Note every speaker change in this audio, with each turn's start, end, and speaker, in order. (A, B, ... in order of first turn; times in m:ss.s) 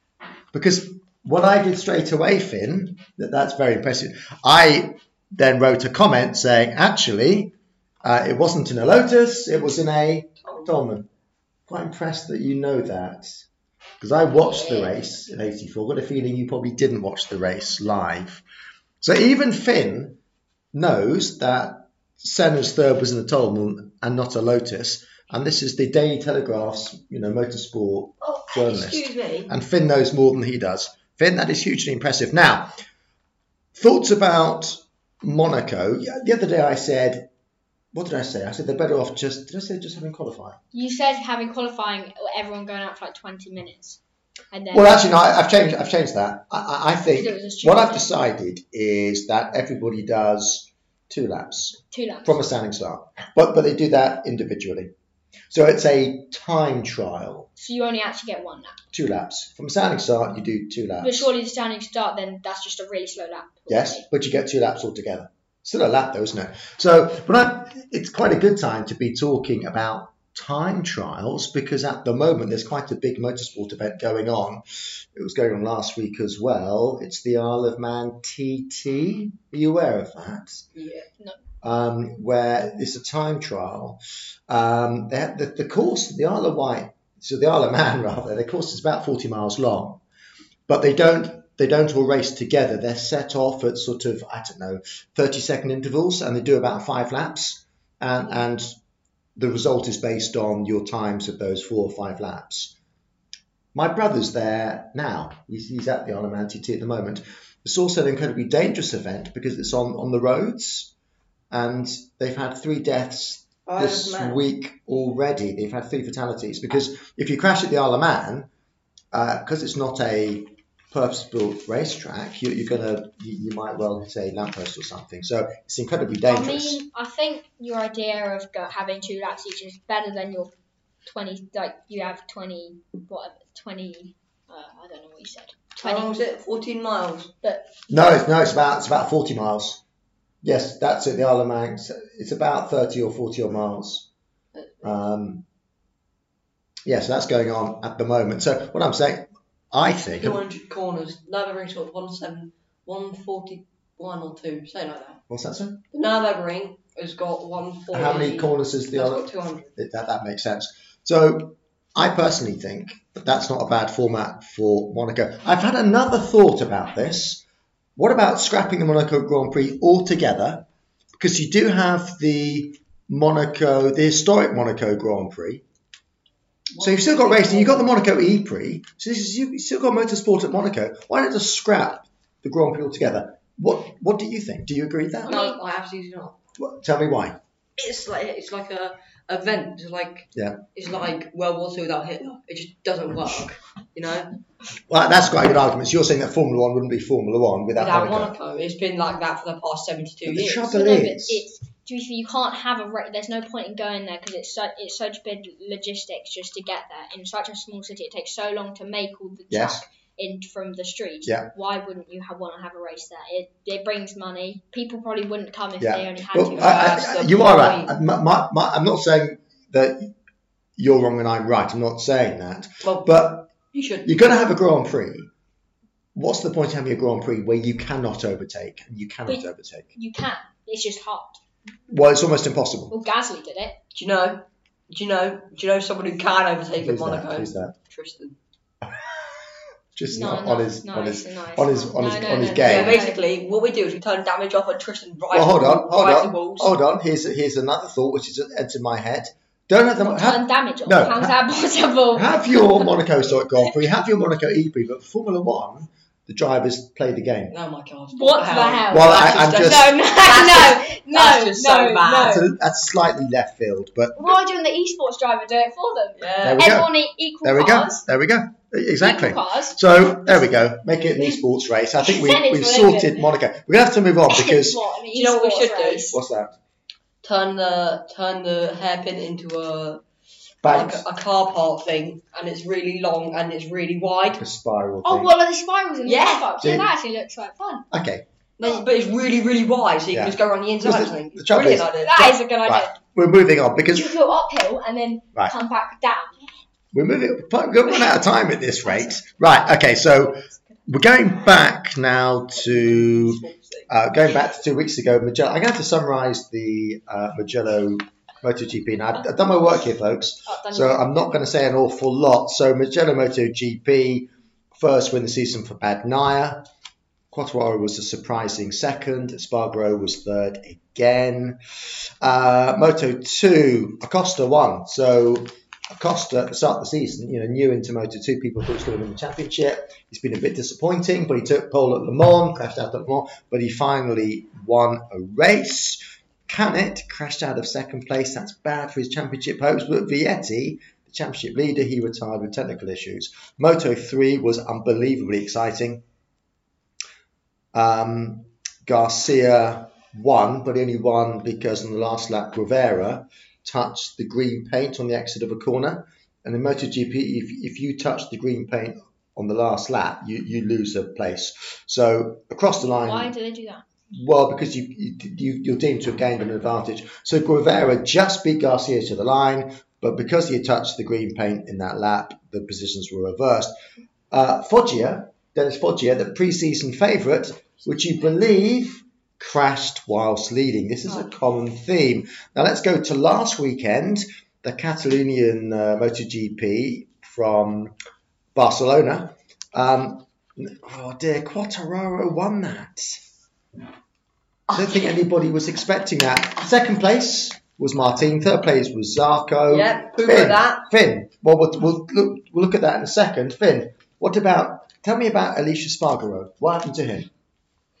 0:00.5-0:11.1 A
0:10.4-0:10.7 B
0:11.7-0:13.4 A
0:14.0-0:18.4 A
0:14.4-0:14.9 B
0:19.0-0:20.2 A
0:20.7-0:32.7 A
0:28.2-0:29.5 B
0:33.7-0:37.3 A
0:37.9-0:40.6 A
0:40.7-0:44.0 C
0:44.5-0:45.3 C
0:44.7-0:54.9 A
0:47.1-0:48.1 C
0:51.9-0:52.4 C
0:55.5-0:57.5 A
0:57.6-0:58.8 C
0:58.9-1:01.3 A
1:01.0-1:04.0 C
1:03.7-1:14.6 A
1:15.1-1:20.6 A
1:20.7-1:21.1 B
1:21.6-1:30.0 A
1:30.7-1:38.7 A
1:39.4-1:42.7 A
1:43.7-1:50.9 A
1:51.5-1:58.5 A
1:53.6-1:54.4 B
1:59.1-2:06.8 A
2:06.3-2:10.5 C
2:11.0-2:16.1 C
2:15.8-2:17.3 B
2:17.9-2:19.8 A
2:20.4-2:24.1 A
2:24.5-2:25.0 B
2:24.8-2:25.4 A
2:26.8-2:30.4 A
2:30.2-2:35.2 B
2:35.3-2:35.8 A
2:35.9-2:39.7 B
2:37.9-2:47.4 A
2:48.0-2:55.6 A
2:56.8-2:58.0 B
2:56.8-3:05.3 A
3:05.2-3:05.6 C
3:05.3-3:06.4 B
3:06.6-3:07.4 A
3:07.8-3:14.3 B
3:10.3-3:10.6 A
3:14.9-3:18.3 A
3:17.8-3:20.7 B
3:20.2-3:21.4 A
3:20.7-3:36.9 C
3:29.5-3:29.8 A
3:31.2-3:31.5 A
3:35.8-3:40.1 A
3:36.6-3:37.9 B
3:40.8-3:43.5 A
3:42.8-3:44.1 B
3:44.0-3:45.3 A
3:46.1-3:49.9 A
3:49.3-3:51.4 C
3:51.9-3:52.9 A
3:52.9-3:53.8 C
3:53.9-3:58.4 B
3:56.8-3:57.7 A
3:58.8-3:59.3 A
4:00.0-4:03.0 A
4:00.1-4:03.2 C
4:02.6-4:06.7 B
4:05.3-4:11.4 A
4:10.0-4:12.9 C
4:12.1-4:17.5 A
4:17.5-4:22.4 B
4:18.1-4:22.4 C
4:18.9-4:19.9 A
4:22.2-4:24.4 A
4:24.2-4:28.0 C
4:26.2-4:26.6 B
4:26.4-4:34.8 A
4:29.0-4:29.8 C
4:32.0-4:33.2 C
4:34.3-4:36.2 C
4:35.1-4:36.1 B
4:36.1-4:36.5 A
4:37.2-4:40.0 B
4:40.6-4:41.0 A
4:40.6-4:44.4 B
4:44.3-4:45.3 A
4:45.0-4:47.8 C
4:46.0-4:46.5 B
4:46.6-4:46.9 A
4:47.9-4:48.2 A
4:48.6-4:52.3 B
4:50.1-4:51.9 A
4:52.0-4:52.9 C
4:52.6-4:54.2 A
4:53.9-4:56.4 C
4:56.9-5:16.7 A
4:58.9-4:59.2 C
5:00.3-5:00.8 C
5:02.6-5:03.9 B
5:10.4-5:11.3 C
5:17.3-5:21.6 A
5:22.2-5:46.0 A
5:47.7-6:03.3 A
6:02.8-6:03.8 C
6:04.1-6:13.7 A
6:14.3-6:27.9 A
6:28.5-6:33.2 A
6:34.7-6:35.1 B
6:34.7-6:47.3 A
6:39.7-6:40.9 B